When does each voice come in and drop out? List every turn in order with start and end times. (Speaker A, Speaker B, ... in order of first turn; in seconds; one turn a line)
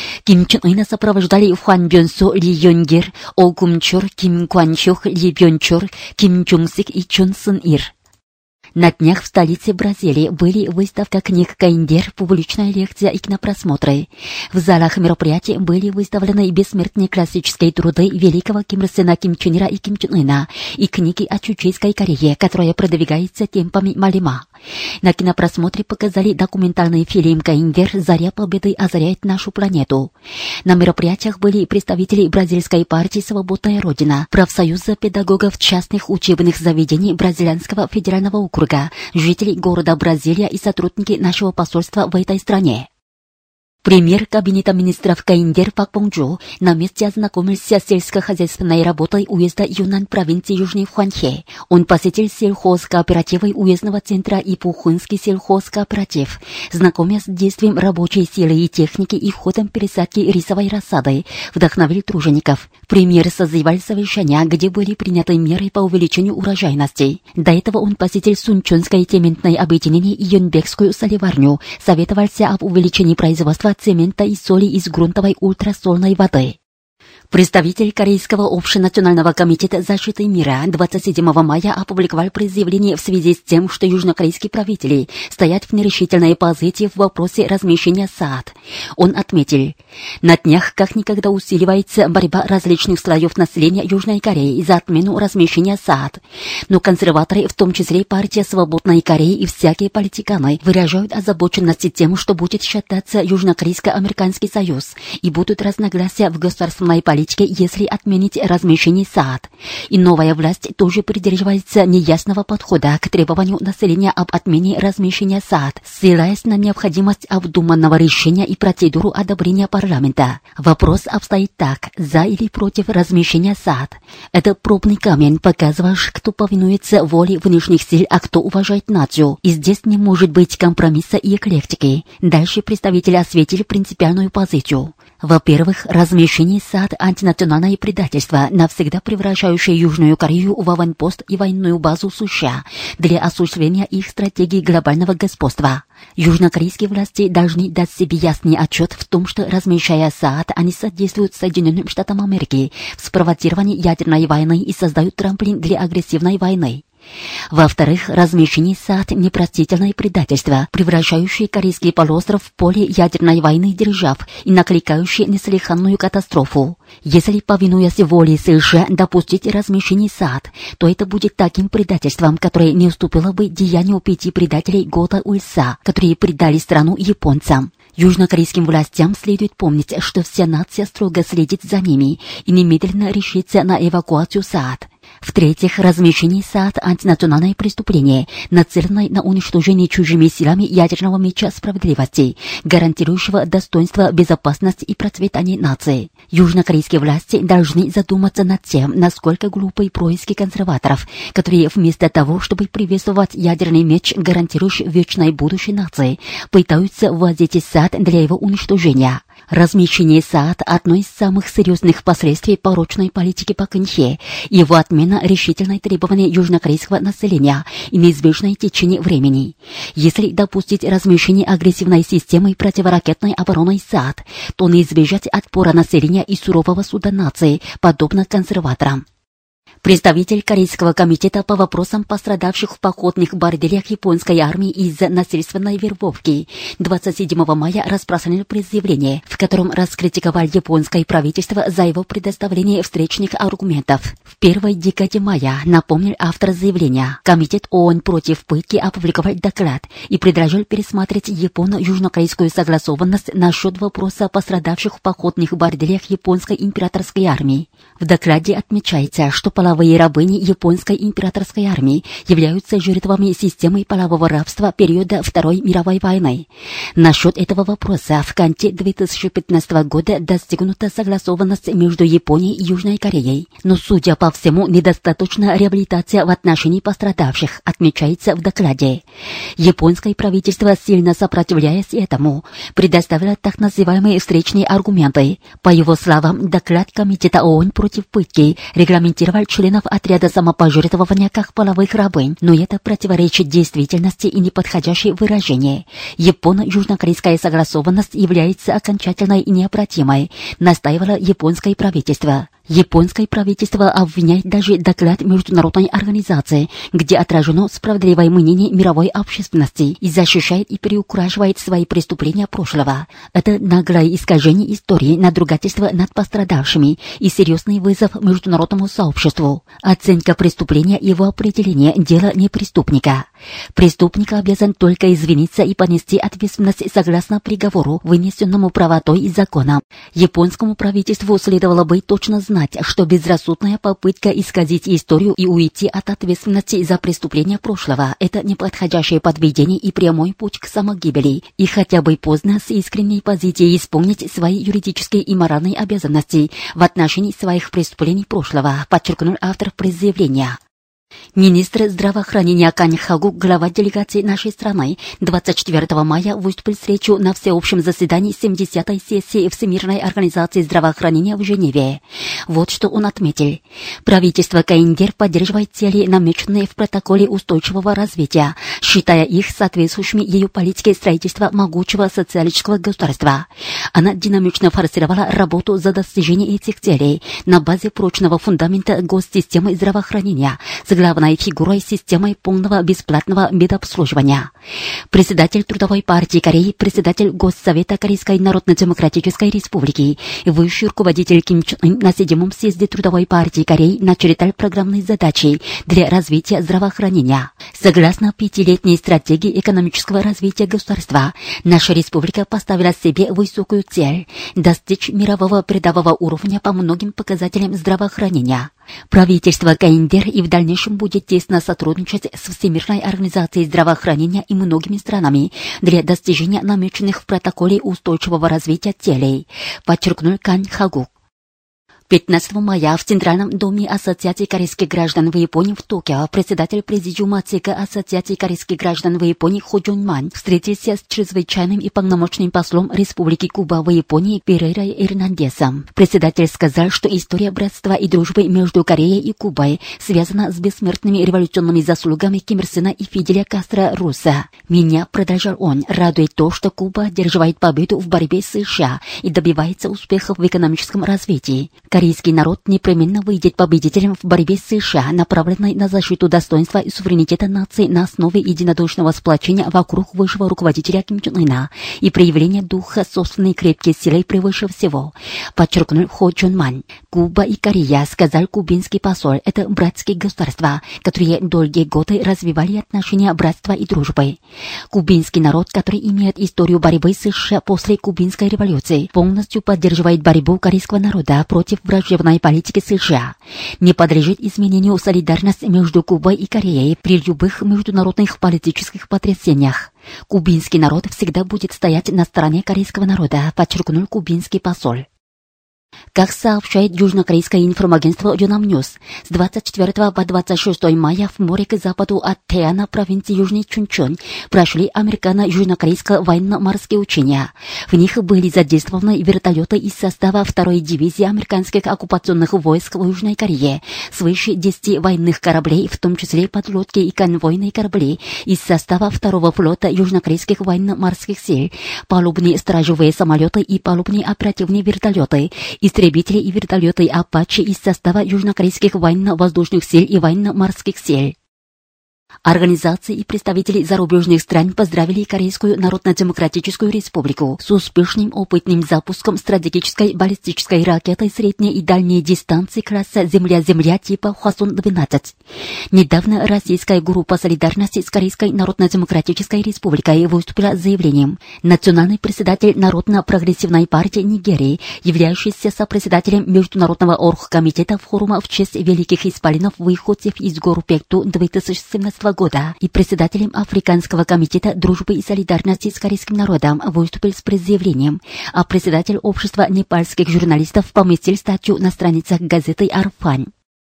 Speaker A: 0.2-7.9
Speaker A: 8.8-24.5
Speaker A: 25.0-30.1
Speaker A: 30.6-42.9
Speaker A: 43.8-76.6
Speaker A: 77.3-156.8
Speaker A: 157.5-229.0
Speaker A: 229.8-279.0
Speaker A: 279.6-350.6
Speaker A: 351.4-384.5
Speaker A: 385.1-421.1
Speaker A: 422.1-474.4
Speaker A: 474.9-495.1
Speaker A: 496.1-531.4
Speaker A: 532.4-545.3
Speaker A: 545.9-573.5